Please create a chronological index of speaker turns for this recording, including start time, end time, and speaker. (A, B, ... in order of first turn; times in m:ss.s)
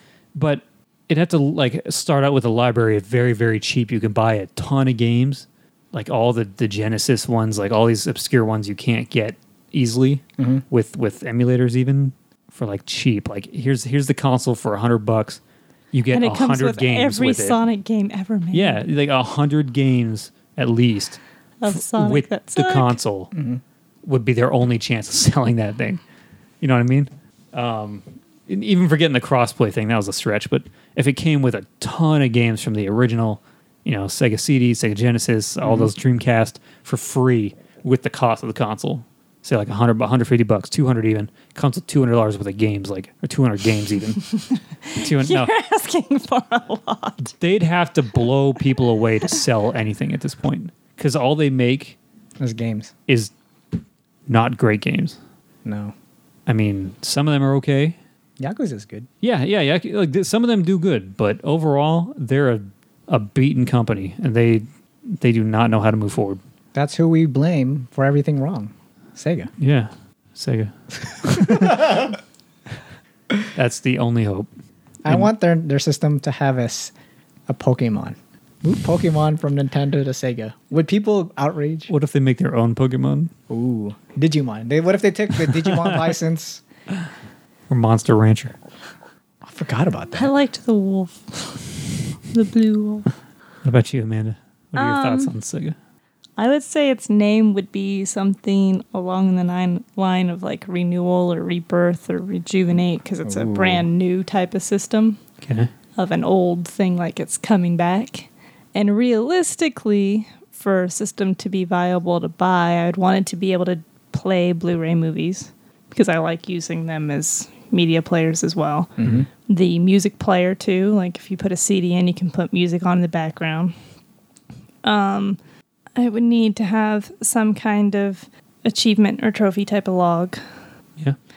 0:00.4-0:15.4 A
0:10.4-0:10.6 B
0:15.9-0:17.6 A
0:16.1-0:18.8 C
0:18.5-0:23.3 A
0:21.6-0:23.0 C
0:23.3-0:23.6 B
0:24.0-0:26.0 A
0:26.6-0:44.3 A
0:35.6-0:35.9 B
0:44.9-0:47.3 C
0:45.0-0:45.5 A
0:47.3-0:52.0 A
0:52.4-0:52.9 B
0:54.3-0:55.2 A
0:55.6-0:55.9 B
0:56.5-0:58.0 A
0:58.4-0:59.1 B
0:59.2-1:06.4 A
1:06.7-1:09.5 B
1:09.6-1:12.1 A
1:11.4-1:12.1 B
1:13.5-1:14.5 A
1:15.0-1:16.9 B
1:17.5-1:21.9 B
1:21.9-1:23.3 A
1:23.5-1:26.6 B
1:25.4-1:26.1 A
1:27.7-1:28.5 A
1:29.4-1:30.3 B
1:30.1-1:33.1 C
1:33.6-1:35.8 A
1:34.8-1:35.3 C
1:36.4-1:45.2 C
1:43.2-1:43.9 B
1:45.4-1:45.7 A
1:46.0-1:58.9 C
1:59.0-1:59.3 B
1:59.5-2:03.8 C
2:04.8-2:05.4 C
2:06.0-2:10.4 C